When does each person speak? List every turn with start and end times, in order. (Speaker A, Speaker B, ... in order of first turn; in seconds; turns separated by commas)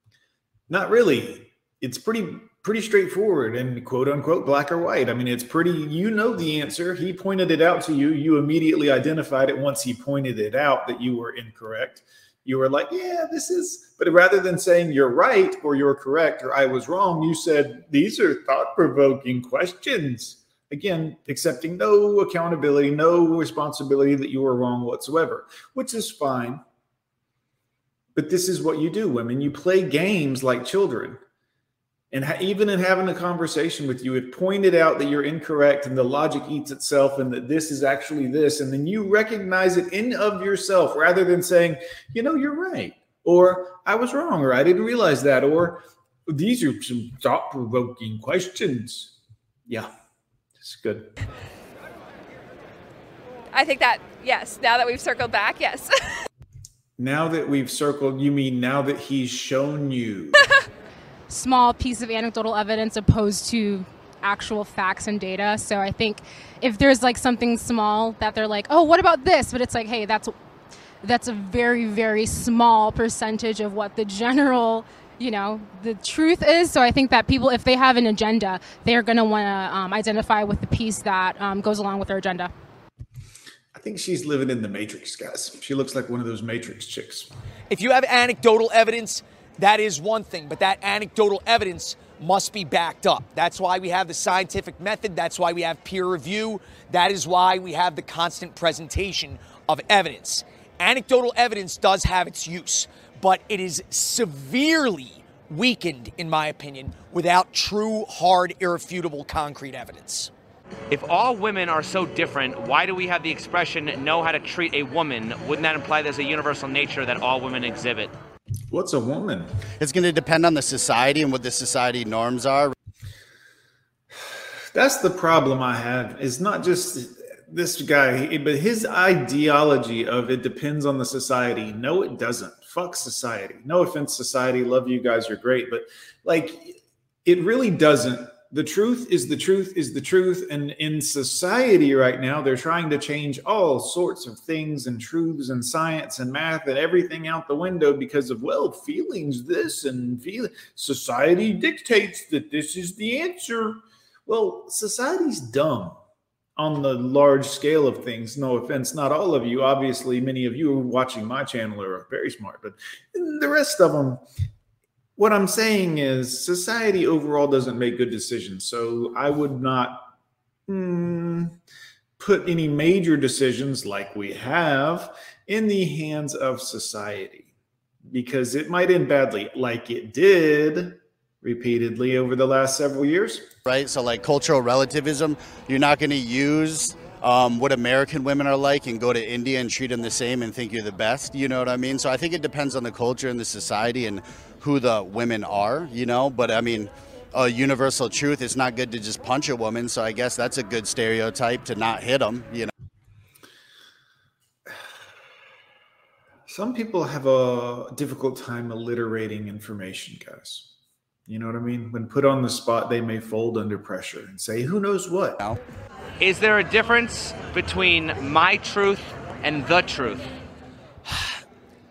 Speaker A: 0.7-26.6, Speaker A: 28.1-31.2, Speaker A: 32.1-49.1, Speaker A: 50.6-51.1, Speaker B: 53.5-55.9, Speaker A: 57.0-60.5, Speaker C: 61.3-70.3, Speaker C: 71.0-82.5, Speaker A: 83.7-87.3, Speaker D: 87.7-110.3, Speaker E: 110.9-118.1, Speaker A: 118.7-119.5, Speaker F: 119.8-122.7, Speaker A: 124.7-155.9, Speaker A: 156.6-164.2, Speaker A: 165.2-170.1, Speaker A: 170.7-171.5, Speaker A: 172.2-177.5, Speaker A: 178.1-183.5, Speaker F: 183.6-202.7, Speaker A: 206.5-210.7, Speaker A: 211.3-215.4, Speaker E: 216.2-220.3, Speaker D: 221.1-221.4